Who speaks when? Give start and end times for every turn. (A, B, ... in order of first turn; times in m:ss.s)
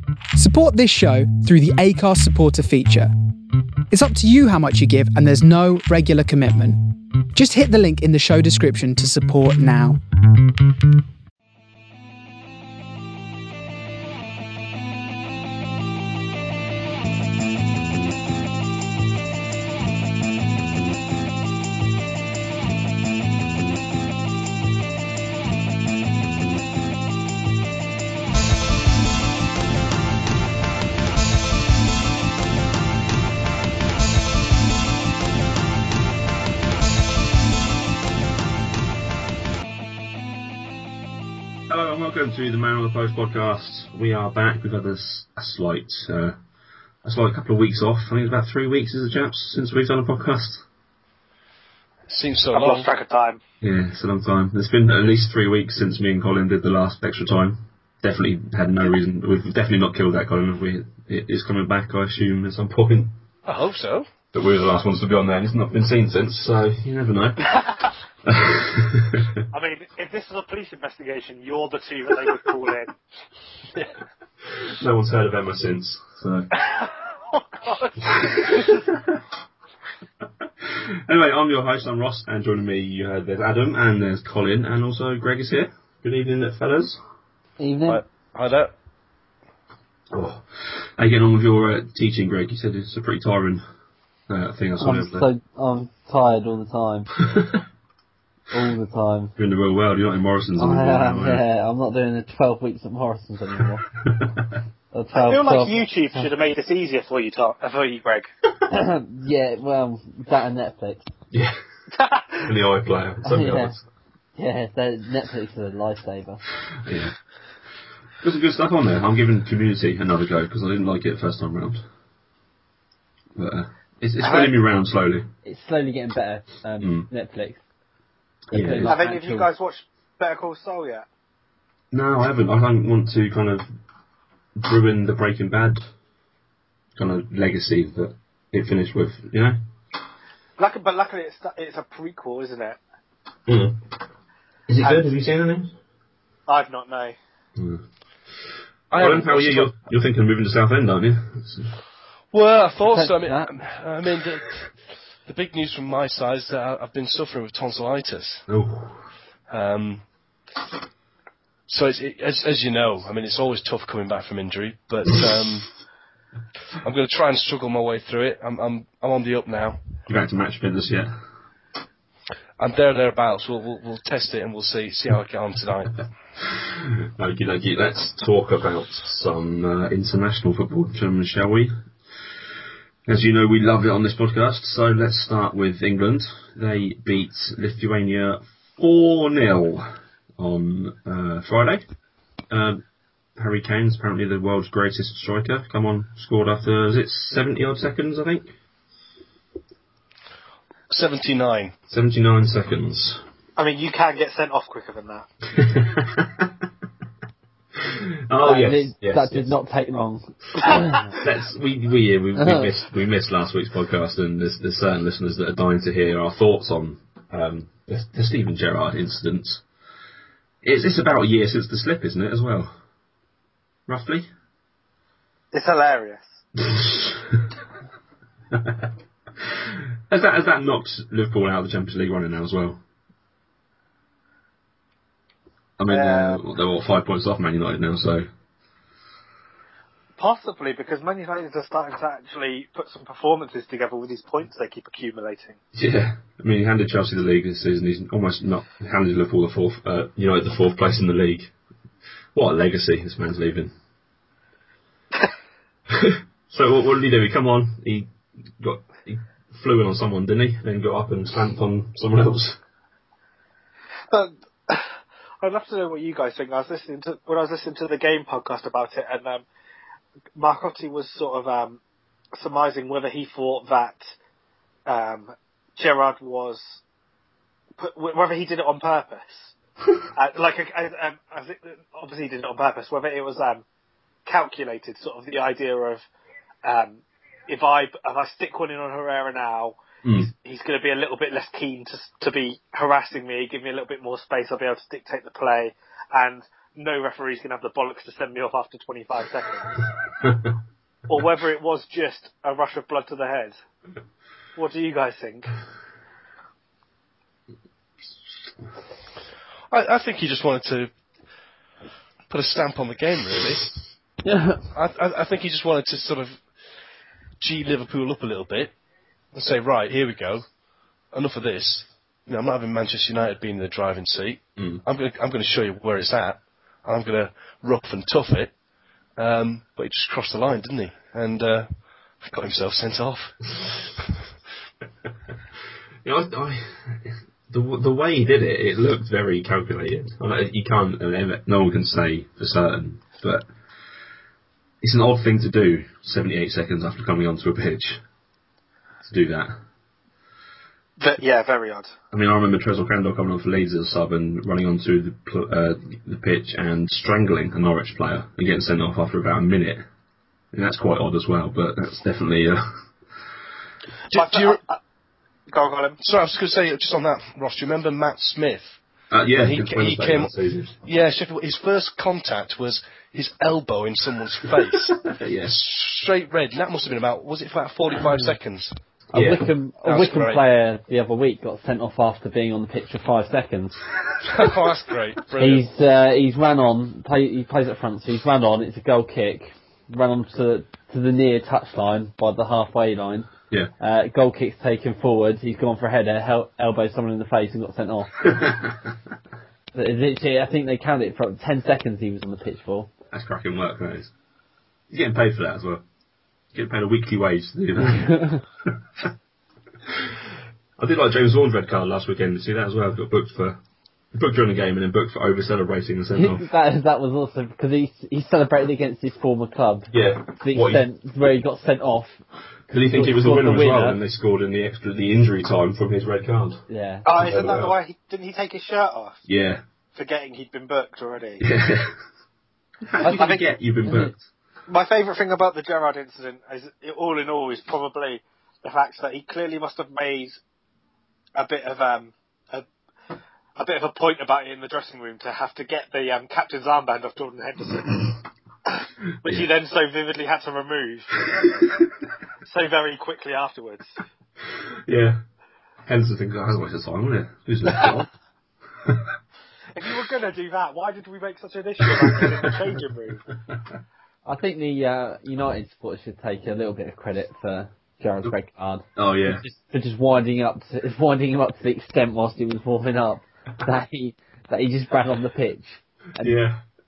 0:00.3-0:03.1 A
0:03.9-0:06.8 A
0:07.3-0:10.0 A
0:41.7-0:46.4 B
0:47.0-0:50.6 B
0:52.1-0:52.9 C
0:52.5-0:53.4 D
0:53.6-1:03.2 B
1:03.4-1:04.0 C
1:04.3-1:07.5 B
1:08.2-1:09.4 B
1:09.5-1:12.9 D
1:14.6-1:16.5 B
1:16.6-1:18.6 D
1:18.0-1:19.2 B
1:20.6-1:27.0 B
1:27.6-1:28.0 E
1:27.9-1:28.7 C
1:30.1-1:33.6 B
1:34.3-1:35.3 B
1:34.8-1:37.1 E
1:37.2-1:37.6 B
1:38.5-1:39.3 E
1:39.4-1:41.4 B
1:40.6-1:43.8 E
1:44.0-1:44.5 B
1:44.9-1:45.8 E
1:45.1-1:48.3 D
1:48.7-1:51.1 E
1:51.3-1:51.6 B
1:51.9-1:52.5 D
1:52.4-1:53.8 B
1:53.2-1:53.8 E
1:54.4-1:56.4 E
1:56.8-1:57.1 B
1:58.2-2:01.8 B
2:03.4-2:05.3 B
2:04.2-2:04.6 D
2:05.4-2:07.6 E
2:06.8-2:07.1 B
2:08.5-2:09.0 B
2:08.5-2:09.5 E
2:08.9-2:11.0 D
2:11.9-2:13.7 B
2:14.6-2:15.8 B
2:17.0-2:19.6 B
2:20.6-2:22.8 D
2:23.5-2:23.8 B
2:24.7-2:25.7 B
2:24.8-2:25.1 D
2:26.5-2:27.2 D
2:27.6-2:27.8 B
2:28.9-2:29.8 C
2:28.9-2:31.7 B
2:32.3-2:34.7 C
2:32.9-2:33.5 E
2:35.3-2:38.4 C
2:38.5-2:39.0 B
2:39.5-2:40.0 C
2:41.7-2:45.7 C
2:46.8-2:49.8 C
2:50.1-2:51.1 B
2:52.6-2:56.0 C
2:56.5-3:01.7 B
3:03.0-3:11.8 B
3:12.5-3:12.8 B
3:13.4-3:18.5 B
3:20.9-3:21.7 C
3:21.9-3:23.2 B
3:23.6-3:25.2 D
3:25.5-3:26.7 B
3:27.8-3:29.5 B
3:28.4-3:31.1 E
3:31.0-3:39.6 B
3:32.4-3:32.7 E
3:40.6-3:42.7 B
3:43.9-3:44.3 B
3:45.5-3:46.2 D
3:46.6-3:47.4 B
3:48.5-3:52.8 B
3:55.8-3:58.2 B
3:55.9-3:56.4 D
4:00.2-4:05.6 D
4:05.7-4:11.5 B
4:12.3-4:13.7 B
4:15.9-4:22.6 B
4:24.1-4:24.9 D
4:25.4-4:29.4 D
4:30.3-4:31.8 D
4:32.3-4:34.1 D
4:34.9-4:36.8 D
4:37.8-4:39.5 D
4:40.1-4:43.6 D
4:44.2-4:46.0 D
4:46.6-4:59.8 D
4:50.0-4:50.3 B
5:01.1-5:03.6 D
5:04.6-5:05.5 D
5:09.7-5:10.9 C
5:12.3-5:13.8 C
5:14.2-5:14.6 E
5:14.7-5:16.4 C
5:17.4-5:18.7 C
5:19.3-5:20.4 C
5:21.1-5:28.5 C
5:24.6-5:24.8 B
5:29.2-5:31.7 C
5:32.2-5:33.9 C
5:36.0-5:43.5 B
5:44.8-5:48.0 B
5:49.0-5:49.6 B
5:51.0-5:51.9 D
5:52.1-5:59.8 B
6:00.5-6:02.6 B
6:04.1-6:04.6 C
6:04.1-6:04.8 D
6:05.5-6:06.0 D
6:06.0-6:08.8 C
6:09.1-6:10.7 B
6:09.4-6:10.3 C
6:10.8-6:18.7 C
6:15.0-6:15.7 B
6:19.1-6:19.5 B
6:19.1-6:23.8 E
6:19.8-6:20.4 C
6:24.2-6:25.6 C
6:25.4-6:38.4 E
6:39.7-6:42.9 E
6:43.1-6:44.1 B
6:44.9-6:45.8 B
6:46.5-6:49.0 B
6:47.9-6:48.4 E
6:50.8-6:53.6 B
6:54.1-6:56.4 B
6:56.1-7:02.2 E
6:59.9-7:00.8 B
7:02.7-7:06.6 B
7:02.9-7:04.0 E
7:06.7-7:07.0 E
7:07.0-7:09.2 D
7:07.1-7:07.8 B
7:09.3-7:09.6 B
7:09.9-7:11.5 D
7:11.4-7:11.9 B
7:12.8-7:14.2 B
7:13.2-7:13.4 D
7:13.8-7:14.1 E
7:14.7-7:20.4 D
7:21.4-7:22.6 D
7:23.6-7:28.2 D
7:29.2-7:31.2 D
7:32.4-7:33.9 D
7:34.5-7:35.2 B
7:35.8-7:38.1 B
7:39.7-7:43.2 D
7:41.8-7:42.4 B
7:44.2-7:56.4 E
7:49.0-7:49.4 B
7:56.2-7:56.6 B